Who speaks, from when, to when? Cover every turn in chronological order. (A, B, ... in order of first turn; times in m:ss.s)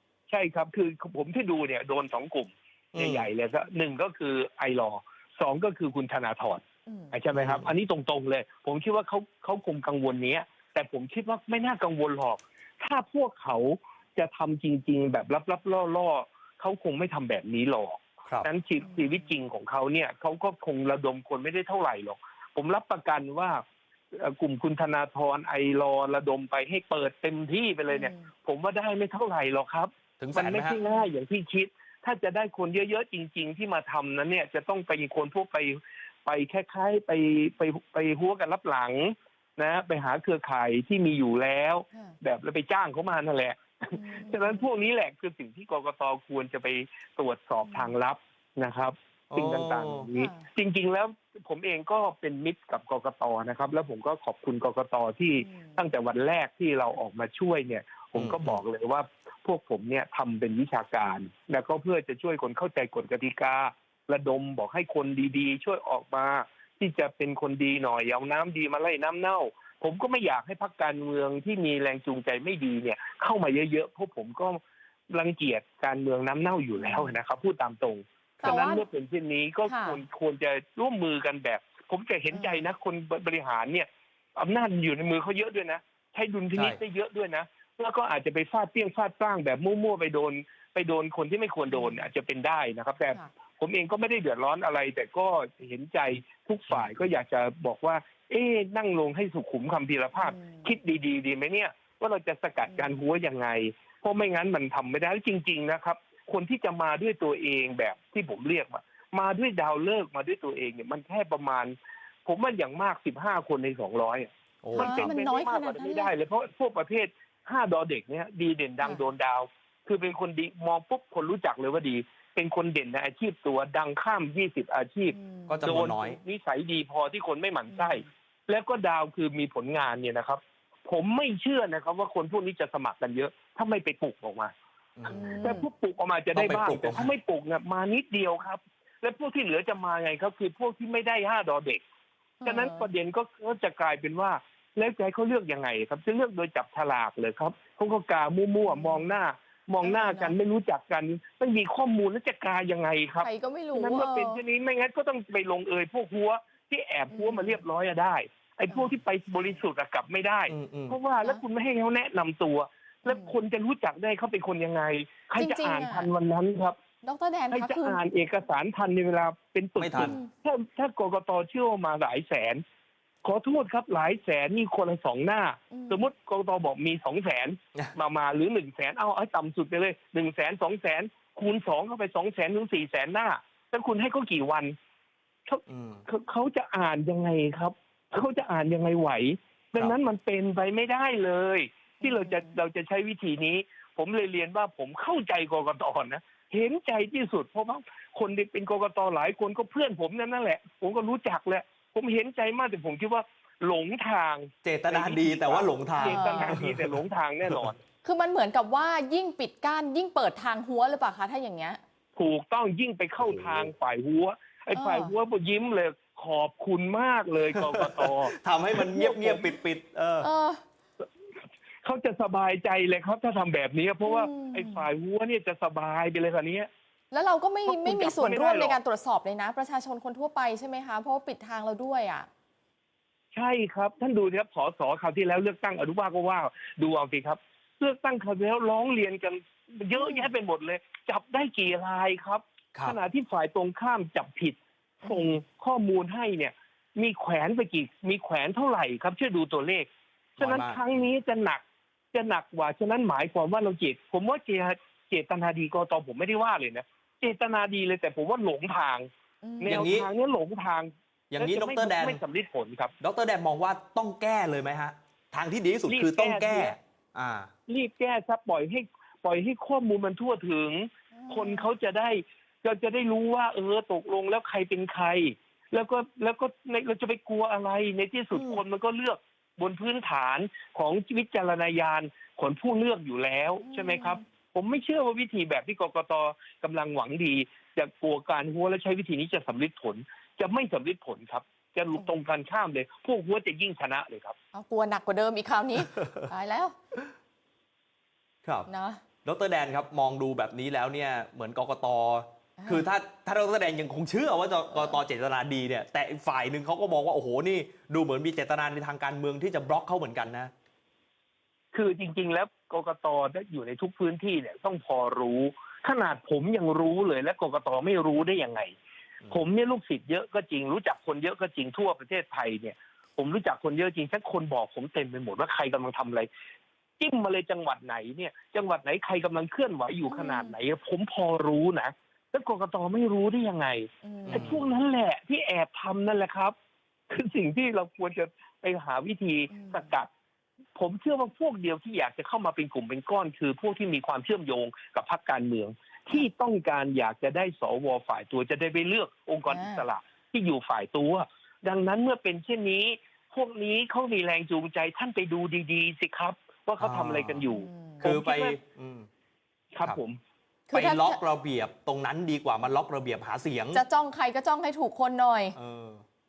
0:00.3-0:23.6 A
0:02.9-0:03.3 B
0:06.9-0:07.2 C
0:07.3-0:07.7 B
0:18.8-0:19.2 C
0:24.1-2:14.5 A
0:27.9-0:28.3 C
0:30.2-0:30.8 B
0:44.0-0:44.7 C
0:47.6-0:48.0 C
0:49.3-0:50.1 B
0:50.1-0:50.5 C
0:55.4-0:55.9 C
0:58.2-0:58.6 B
1:16.8-1:17.2 C
1:18.4-1:18.8 C
1:19.7-1:20.0 C
1:22.3-1:22.7 C
1:31.7-1:32.1 C
1:36.7-1:37.0 B
1:40.2-1:40.7 C
1:42.6-1:42.9 C
1:54.6-1:55.1 B
1:54.8-1:56.1 C
2:05.1-2:05.8 C
2:05.5-2:06.2 B
2:07.7-2:08.1 C
2:15.0-2:15.4 B
2:15.1-2:15.7 C
2:15.1-2:21.8 A
2:16.4-2:17.1 B
2:22.4-2:22.9 C
2:22.4-2:46.8 A
2:28.6-2:29.2 C
2:29.8-2:30.4 C
2:33.2-2:34.4 C
2:37.1-2:37.6 C
2:38.7-2:39.0 C
2:40.5-2:41.0 B
2:43.1-2:43.4 C
2:45.4-2:46.1 C
2:47.0-2:48.0 C
2:47.5-2:52.6 A
2:49.8-2:50.2 B
2:49.9-2:50.3 C
2:53.2-3:04.7 A
2:55.7-2:56.1 C
3:05.5-3:27.8 A
3:05.7-3:06.0 B
3:12.0-3:12.6 C
3:24.6-3:27.0 B
3:26.0-3:26.6 C
3:28.0-3:31.8 C
3:32.2-3:39.5 A
3:33.2-3:33.7 B
3:34.7-3:35.1 C
3:37.5-3:40.3 B
3:40.2-3:40.6 C
3:41.8-3:46.7 A
3:44.0-3:44.8 C
3:47.1-3:52.3 C
3:47.7-3:48.8 A
3:53.3-4:11.6 A
4:00.0-4:00.3 C
4:05.0-4:05.4 C
4:10.4-4:11.0 B
4:12.1-4:19.1 A
4:19.4-4:19.8 C
4:19.6-4:22.9 A
4:19.7-4:20.1 B
4:21.3-4:22.2 B
4:23.0-4:27.5 B
4:25.9-4:26.8 A
4:27.7-4:54.4 A
4:31.1-4:31.7 C
4:38.3-4:38.6 C
4:43.6-4:44.2 C
4:54.5-4:56.7 C
4:55.8-4:56.3 B
4:58.7-4:59.0 C
4:59.2-5:10.5 B
5:02.6-5:02.9 C
5:04.7-5:05.0 C
5:11.7-5:18.7 A
5:19.3-5:26.3 A
5:27.0-5:36.5 A
5:30.1-5:30.5 C
5:34.0-5:34.6 C
5:34.3-5:34.7 B
5:37.1-5:40.1 A
5:39.5-5:39.9 C
5:40.8-5:58.6 A
5:49.5-5:49.8 C
5:56.8-5:57.4 B
5:57.4-5:58.1 C
5:58.0-5:59.1 B
5:59.7-6:00.2 A
6:00.7-6:01.2 C
6:00.7-6:03.8 B
6:03.7-6:05.6 C
6:05.6-6:06.0 B